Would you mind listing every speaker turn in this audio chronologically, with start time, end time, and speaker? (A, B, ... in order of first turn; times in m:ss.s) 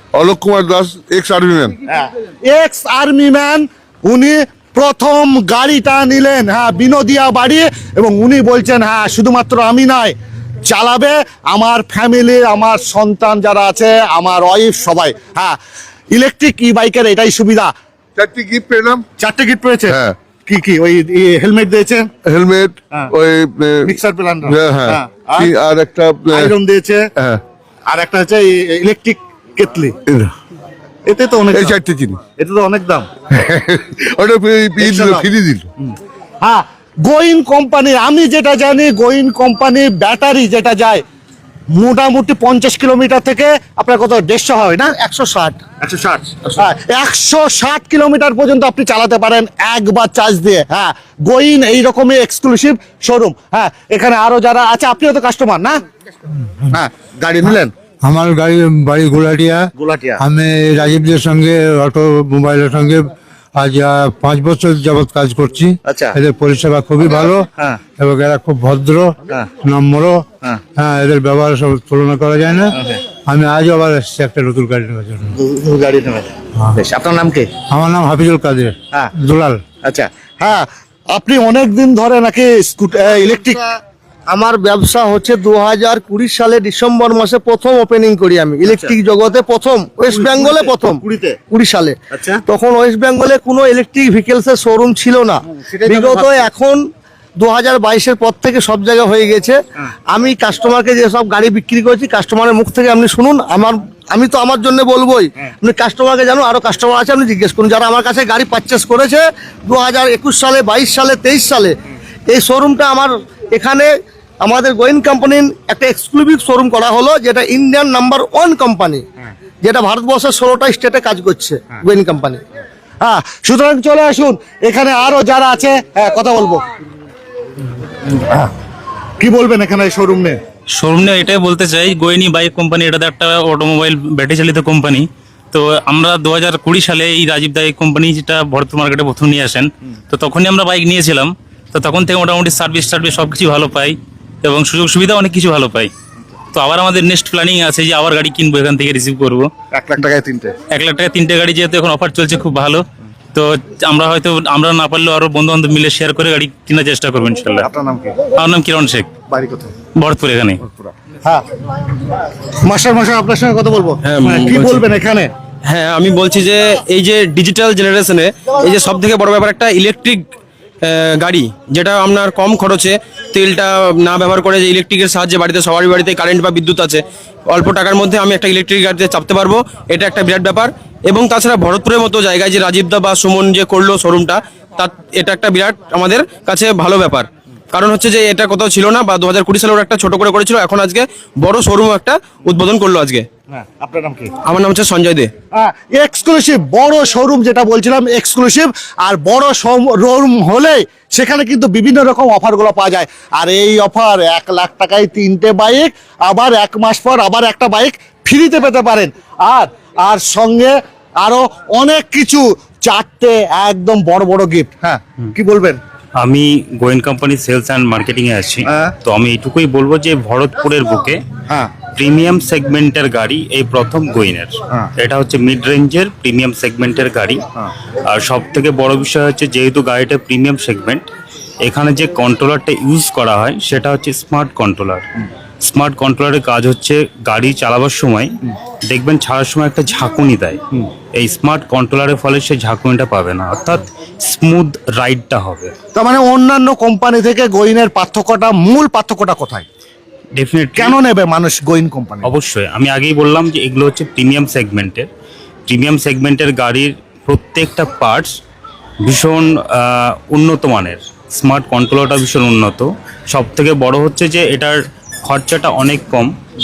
0:00.1-0:01.8 A
0:01.9-0:15.6 B
0:16.1-0:17.7 B
0:18.2-0:19.0 A
0:19.2-0:22.1 B
0:19.9-0:20.1 A
0:22.2-0:23.9 A
0:23.8-0:25.5 B
0:24.5-0:26.6 A
0:26.3-0:27.0 B
0:27.9-0:29.9 B
0:30.1-0:30.3 A
0:31.1-0:31.8 B
0:31.5-0:32.2 A
0:32.4-0:33.1 B
0:33.3-0:35.7 A
0:34.8-0:35.3 B
0:35.8-0:41.0 B
0:41.7-0:44.9 B
0:45.0-0:45.6 C
0:45.8-0:55.8 B
0:56.7-0:57.7 B
0:58.0-1:15.3 D
0:59.8-1:00.2 B
1:05.8-1:06.2 B
1:15.3-1:17.5 B
1:17.7-1:19.6 D
1:19.8-1:23.6 B
1:24.3-1:36.8 C
1:28.6-1:29.0 B
1:30.1-1:31.4 B
1:32.1-1:32.4 B
1:35.5-1:36.5 B
1:37.4-1:51.8 C
1:52.3-1:59.0 C
1:59.6-2:02.4 C
2:03.0-2:06.6 B
2:08.2-2:08.5 B
2:09.2-2:10.4 B
2:10.7-2:25.9 E
2:26.5-2:29.5 E
2:29.7-2:30.6 B
2:30.7-2:37.7 E
2:37.6-2:38.2 B
2:38.3-2:39.1 E
2:39.3-2:39.7 B
2:40.0-2:40.6 E
2:40.6-2:41.4 B
2:42.6-2:45.3 B
2:44.0-2:44.8 F
2:45.6-2:50.2 F
2:50.8-3:13.2 F
3:13.5-3:14.3 B
3:14.4-3:15.3 F
3:15.5-3:35.8 B
3:36.2-3:41.2 E
3:38.6-3:38.9 B
3:41.9-3:47.4 E
3:48.0-3:51.1 E
3:51.6-3:55.1 E
3:55.6-4:05.7 E
4:05.9-4:09.7 B
4:10.3-4:11.0 E
4:10.8-4:12.3 B
4:12.2-4:15.1 E
4:15.7-4:18.4 E
4:19.0-4:26.4 E